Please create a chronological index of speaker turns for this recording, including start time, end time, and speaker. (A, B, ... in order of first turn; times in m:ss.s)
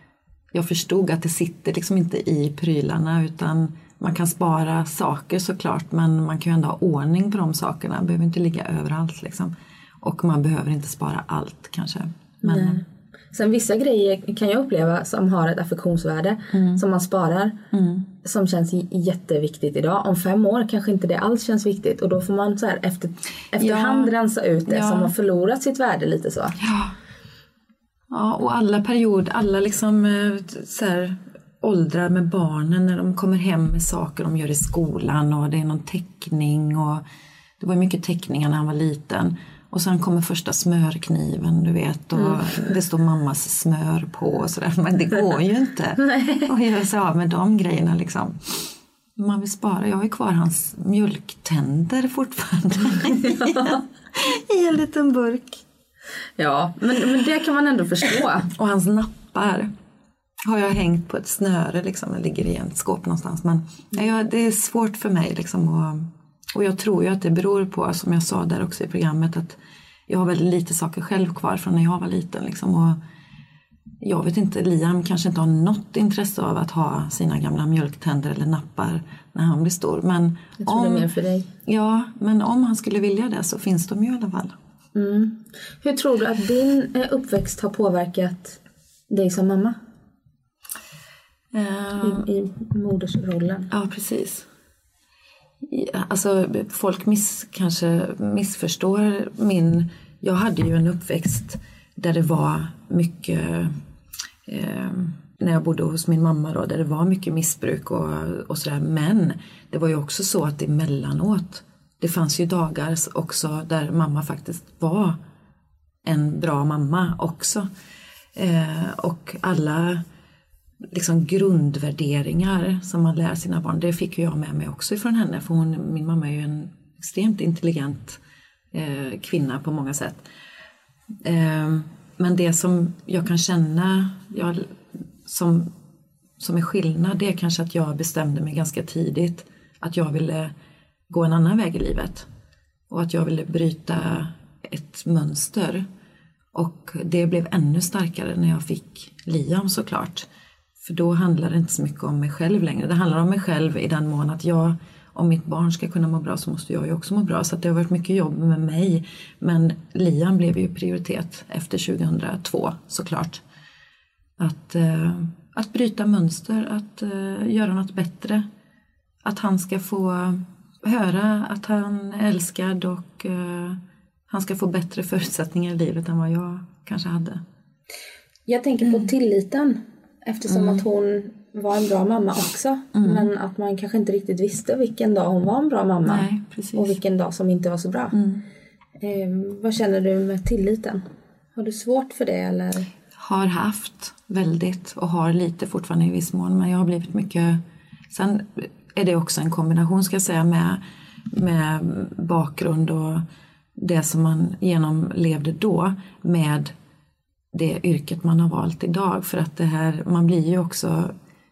0:00.5-0:12.8 A
0:12.4-0:17.6 B
0:16.5-0:16.8 A
0:17.7-0:18.1 A
0:18.2-0:26.6 B
0:23.6-0:24.1 A
0:24.7-0:25.1 A
0:26.6-0:27.0 A
0:28.1-0:37.0 A
0:37.6-0:55.6 A
0:46.1-0:46.4 B
0:56.4-0:58.5 B
0:58.5-0:59.7 A
1:00.4-1:13.0 A
1:14.0-1:21.1 A
1:20.6-1:21.5 B
1:21.6-1:24.6 A
1:25.0-1:28.6 B
1:29.1-1:29.8 B
1:31.5-1:32.3 A
1:32.0-1:33.7 B
1:33.7-1:34.5 A
1:35.6-1:43.8 A
1:44.5-1:55.2 A
1:56.0-1:57.7 A
1:58.4-2:00.0 A
2:00.9-2:08.2 A
2:08.7-2:10.2 A
2:11.2-2:15.7 A
2:16.4-2:20.5 A
2:21.1-2:22.3 A
2:22.9-2:25.9 A
2:26.5-2:30.3 A
2:30.8-2:43.4 A
2:44.4-2:48.5 A
2:49.2-2:57.4 A
2:58.5-3:08.2 B
3:00.5-3:00.8 A
3:03.0-3:03.3 A
3:06.1-3:07.0 A
3:08.1-3:08.4 A
3:09.0-3:11.0 B
3:11.6-3:12.9 B
3:13.2-3:17.6 A
3:18.1-3:23.2 A
3:23.8-3:26.7 A
3:27.5-3:31.1 A